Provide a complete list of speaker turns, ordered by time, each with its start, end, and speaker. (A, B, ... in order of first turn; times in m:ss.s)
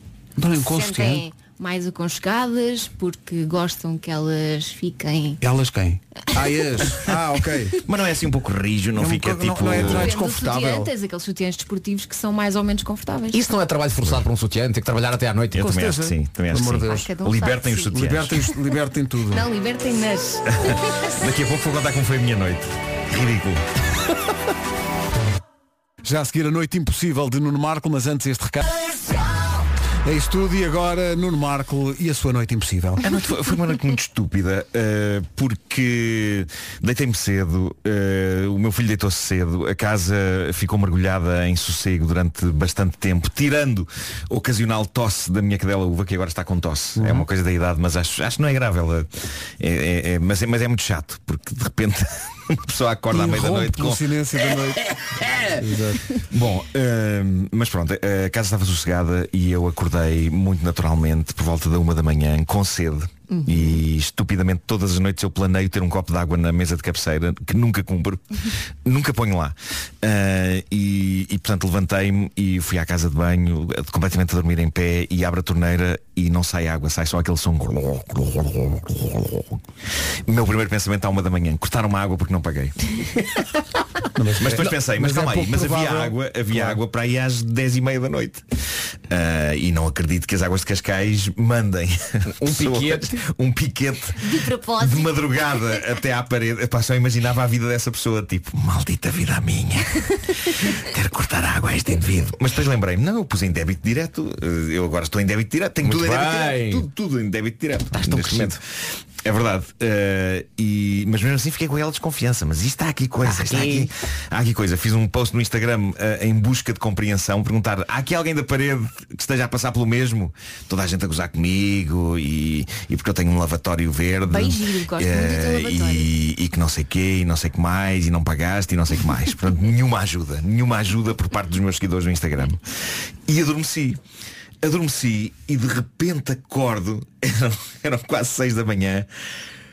0:00.4-0:01.2 A
0:00.6-0:05.4 B
0:05.4-0:07.8 A
0:07.8-0:10.1 C
0:08.9-0:10.9 A
0:09.8-0:13.4 B
0:13.3-0:15.7 D
0:15.5-0:18.4 C
0:15.6-0:17.1 A
0:16.9-0:18.1 B
0:17.9-0:19.4 A
0:19.3-0:20.8 B
0:20.5-0:23.6 C
0:26.0-0:28.6 A
0:30.0-0:33.0 A
0:33.0-0:54.0 C
0:47.0-0:47.2 A
0:53.1-0:56.0 A
0:56.3-1:19.6 C
1:03.3-1:03.8 B
1:20.3-1:23.0 C
1:24.1-1:26.8 A
1:24.4-1:28.4 C
1:29.1-1:48.6 C
1:32.4-1:33.2 D
1:34.2-1:35.6 B
1:45.8-1:46.9 D
1:47.9-1:48.6 D
1:49.2-2:12.6 C
1:53.2-1:53.9 D
2:04.3-2:06.1 B
2:13.3-2:14.0 C
2:14.6-2:19.1 C